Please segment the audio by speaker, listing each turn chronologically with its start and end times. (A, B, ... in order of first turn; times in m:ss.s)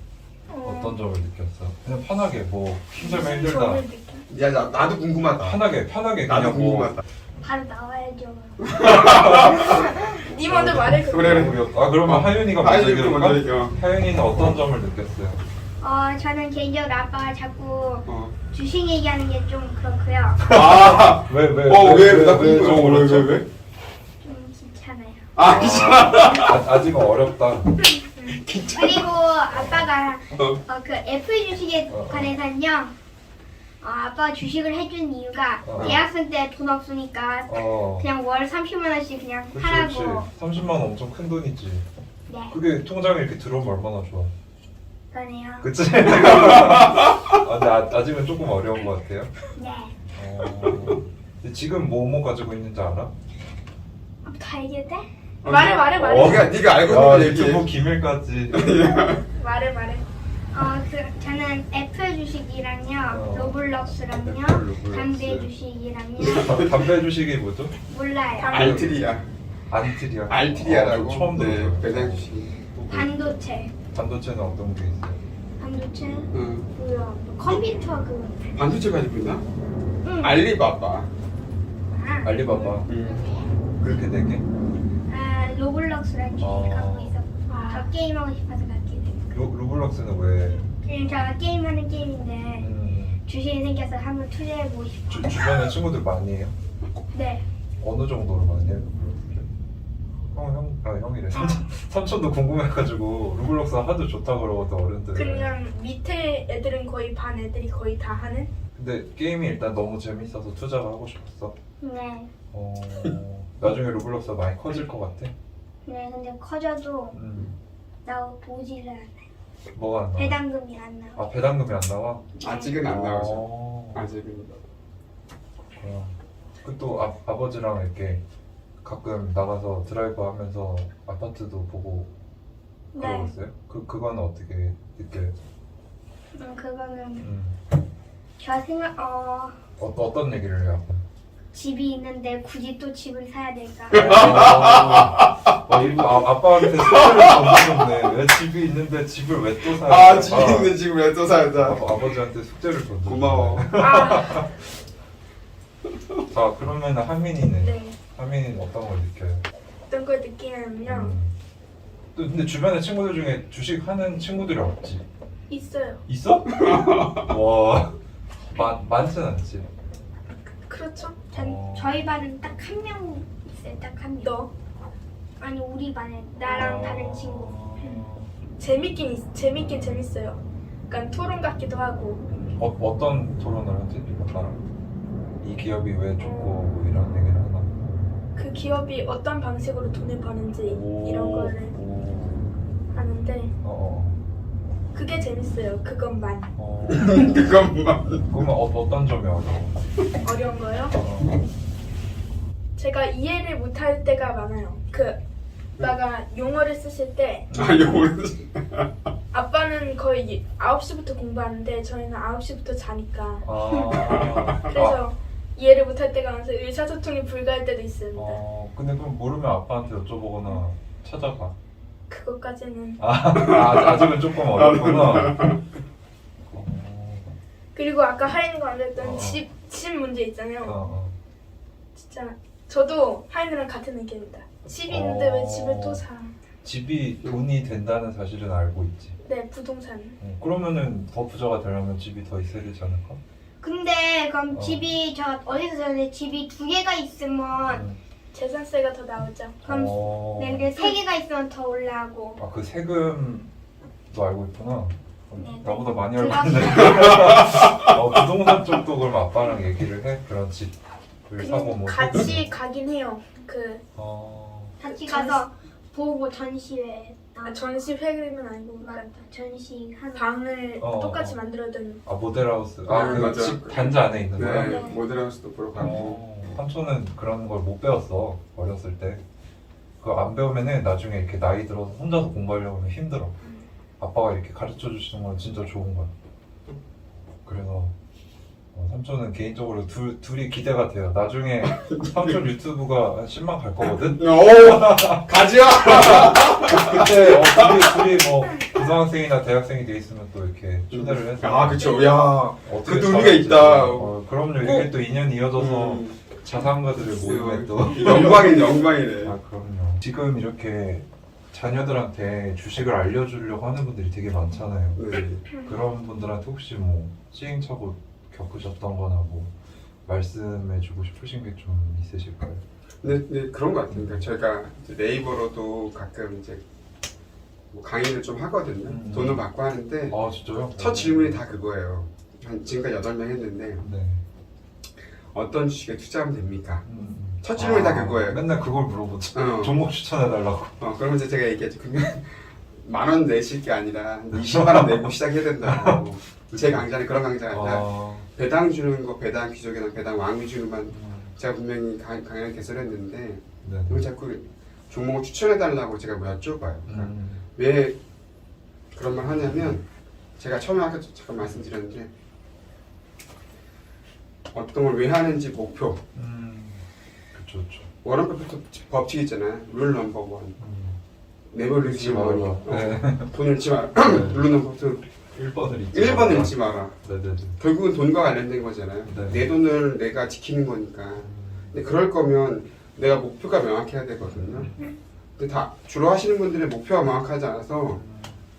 0:00.5-0:01.0 A
0:00.6-0:03.8 B
0:03.0-0:04.3 A
0:04.3-0:05.7 C
0:05.4-0:07.0 B
0:06.3-0:07.0 C
0:07.4-0:08.6 D
0:08.6-0:10.1 C
0:09.0-0:15.4 B
0:09.7-0:10.1 D
0:10.2-0:11.4 A
0:11.1-0:13.8 C
0:15.8-0:20.4 D
0:18.1-0:18.4 C
0:20.4-0:23.4 B
0:20.4-0:23.5 C
0:24.2-0:25.2 D
0:25.4-0:27.0 C
0:25.4-0:27.8 B
0:28.2-0:28.4 A
0:28.2-0:29.1 C
0:28.7-0:32.9 D
0:29.5-0:29.9 B
0:31.9-0:32.4 B
0:33.8-0:40.2 D
0:35.6-0:36.0 B
0:35.8-0:36.0 C
0:37.5-0:38.1 B
0:39.5-0:41.9 B
0:42.5-0:44.3 B
0:45.1-0:45.7 D
0:45.6-0:49.3 B
0:46.2-0:46.8 C
0:49.6-0:49.9 D
0:50.2-0:53.1 B
0:54.2-0:55.0 D
0:55.4-0:57.7 C
0:55.5-0:56.5 A
0:55.9-0:58.7 B
0:58.5-0:59.2 C
0:59.3-1:00.0 A
1:00.5-1:06.5 D
1:03.1-1:03.6 B
1:04.2-1:05.5 B
1:06.2-1:06.9 C
1:06.3-1:07.8 B
1:07.9-1:08.6 D
1:08.4-1:08.8 A
1:08.5-1:09.3 C
1:08.5-1:08.9 B
1:09.7-1:13.2 B
1:10.2-1:12.5 C
1:12.9-1:13.7 D
1:13.9-1:15.2 B
1:15.6-1:18.4 D
1:16.3-1:16.7 C
1:18.6-1:19.4 C
1:20.0-1:20.4 D
1:20.2-1:21.1 C
1:22.0-1:23.2 D
1:22.2-1:22.9 B
1:22.9-1:23.3 C
1:23.8-1:24.4 B
1:25.1-1:29.2 D
1:26.4-1:27.2 B
1:27.5-1:27.9 A
1:29.3-1:30.6 B
1:30.8-1:32.7 D
1:32.6-1:33.2 B
1:33.2-1:35.6 D
1:35.1-1:36.6 B
1:37.1-1:37.4 D
1:37.8-1:39.5 B
1:40.3-1:45.6 B
1:41.4-1:41.6 A
1:45.2-1:48.5 A
1:48.8-1:51.5 B
1:51.8-1:52.3 D
1:52.5-1:55.3 B
1:55.8-1:57.2 D
1:57.1-1:57.5 B
1:58.0-1:59.2 D
1:59.7-2:00.4 B
2:00.2-2:01.1 D
2:01.2-2:02.3 B
2:02.4-2:04.6 C
2:02.8-2:04.1 B
2:05.8-2:08.2 B
2:08.8-2:12.1 B
2:13.0-2:13.3 D
2:13.0-2:15.4 B
2:16.4-2:17.2 D
2:17.2-2:17.6 B
2:18.4-2:19.5 D
2:19.8-2:21.0 B
2:21.5-2:24.1 D
2:23.9-2:25.5 C
2:23.9-2:30.8 B
2:26.6-2:27.9 C
2:29.7-2:31.9 C
2:31.5-2:34.5 B
2:33.0-2:33.7 C
2:33.8-2:34.5 A
2:36.3-2:39.4 B
2:37.6-2:38.0 A
2:39.9-2:41.2 A
2:40.8-2:41.4 B
2:42.2-2:45.1 B
2:45.5-2:46.0 A
2:46.1-2:48.0 B
2:46.5-2:47.3 C
2:48.5-2:49.7 B
2:50.7-2:51.3 A
2:51.3-2:54.3 D
2:51.3-2:52.1 B
2:54.2-2:54.5 A
2:55.4-2:57.6 D
2:56.5-2:58.3 B
2:58.6-3:02.2 A
3:02.3-3:04.6 B
3:05.4-3:07.8 B
3:06.2-3:06.6 A
3:08.4-3:11.8 A
3:10.6-3:12.5 B
3:12.9-3:13.5 A
3:13.6-3:14.2 B
3:14.9-3:16.5 A
3:16.6-3:17.7 B
3:16.9-3:18.2 C
3:18.3-3:19.8 B
3:20.2-3:21.0 A
3:20.9-3:21.4 B
3:22.8-3:25.2 A
3:25.8-3:27.5 A
3:27.5-3:28.1 B
3:27.5-3:28.9 C
3:29.3-3:33.5 A
3:33.4-3:35.0 B
3:33.8-3:34.7 C
3:34.6-3:38.4 A
3:38.1-3:41.6 B
3:42.1-3:43.0 A
3:43.0-3:45.5 B
3:43.4-3:45.6 C
3:46.5-3:47.3 B
3:47.7-3:50.8 A
3:49.0-3:49.4 B
3:50.6-3:51.2 B
3:52.0-3:56.3 A
3:54.9-3:56.0 B
3:56.6-3:59.2 B
3:59.2-4:00.2 A
4:00.2-4:03.2 B
4:03.6-4:07.8 D
4:04.5-4:04.9 B
4:07.7-4:08.0 B
4:08.3-4:09.6 A
4:09.6-4:12.4 D
4:09.7-4:10.7 B
4:12.4-4:13.5 B
4:14.1-4:20.8 B
4:15.4-4:17.2 D
4:17.0-4:17.9 C
4:21.3-4:22.6 B
4:21.4-4:23.8 A
4:24.0-4:24.8 B
4:24.8-4:27.8 D
4:24.8-4:25.5 A
4:27.4-4:29.1 A
4:28.8-4:30.3 D
4:30.1-4:32.0 A
4:30.8-4:31.4 B
4:32.1-4:34.7 B
4:32.9-4:36.2 C
4:34.6-4:35.0 D
4:35.8-4:39.2 B
4:40.0-4:43.3 B
4:44.0-4:46.1 B
4:47.4-4:47.9 B
4:48.7-4:55.3 B
4:51.7-4:52.4 C
4:54.0-4:58.1 C
4:55.8-5:01.8 B
5:00.9-5:04.9 C
5:02.6-5:15.0 B
5:05.6-5:06.4 C
5:07.0-5:09.4 C
5:15.0-5:15.4 C
5:15.6-5:19.5 B
5:20.1-5:23.2 B
5:23.0-5:26.6 C
5:23.9-5:24.3 B
5:27.7-5:30.2 C
5:28.9-5:29.4 B
5:30.1-5:31.4 B
5:30.8-5:33.8 C
5:33.8-5:34.2 B
5:35.3-5:36.8 C
5:36.8-5:40.8 B
5:37.4-5:38.4 C
5:39.3-5:39.8 C
5:40.8-5:58.0 C
5:44.3-5:46.9 B
5:47.5-5:48.3 B
5:50.9-5:51.4 B
5:53.6-5:54.1 B
5:56.9-5:57.4 B
5:58.9-5:59.8 C
6:00.4-6:02.1 C
6:04.5-6:06.0 C
6:06.2-6:07.9 B
6:08.0-6:10.6 C
6:10.6-6:11.0 B
6:11.5-6:15.0 C
6:11.8-6:13.3 B
6:14.0-6:14.5 B
6:15.4-6:17.6 B
6:15.9-6:17.0 C
6:17.6-6:24.7 C
6:19.1-6:19.5 B
6:21.1-6:21.7 B
6:24.2-6:24.8 B
6:25.4-6:28.0 C
6:27.9-6:28.4 B